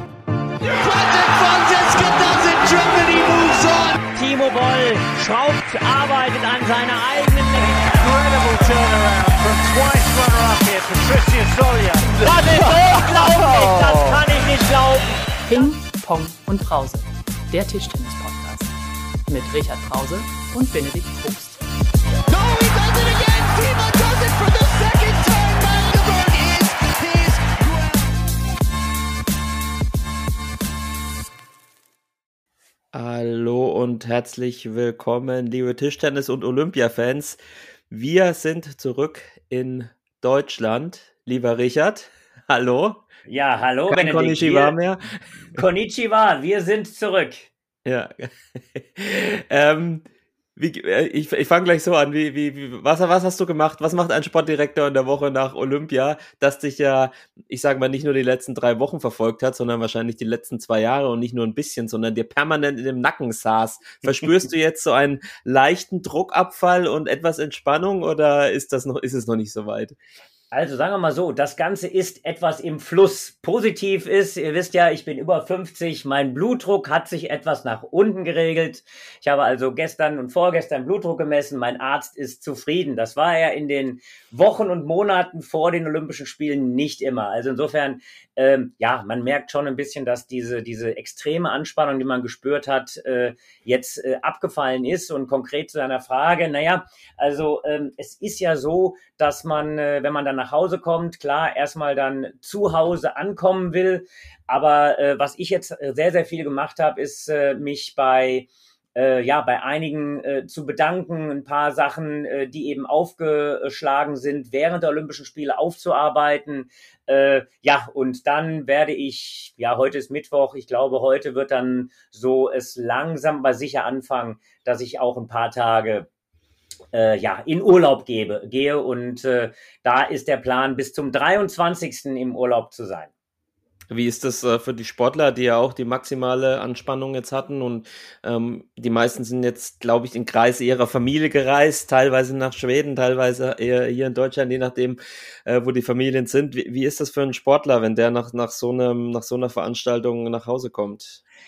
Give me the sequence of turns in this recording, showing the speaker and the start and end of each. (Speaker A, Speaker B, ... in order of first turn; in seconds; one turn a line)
Speaker A: 0.6-4.0
Speaker B: 4.1-8.1
Speaker A: 7.7-14.2
Speaker B: 12.2-15.1
Speaker C: 15.4-18.7
Speaker C: 19.3-21.6
Speaker A: 22.3-28.2
Speaker D: 32.9-37.4
Speaker D: 37.9-43.0
Speaker B: 43.3-44.7
Speaker D: 43.9-45.6
Speaker B: 45.5-47.5
Speaker D: 47.8-70.0
Speaker B: 70.5-126.1
Speaker B: 126.9-133.1
Speaker D: 133.9-151.2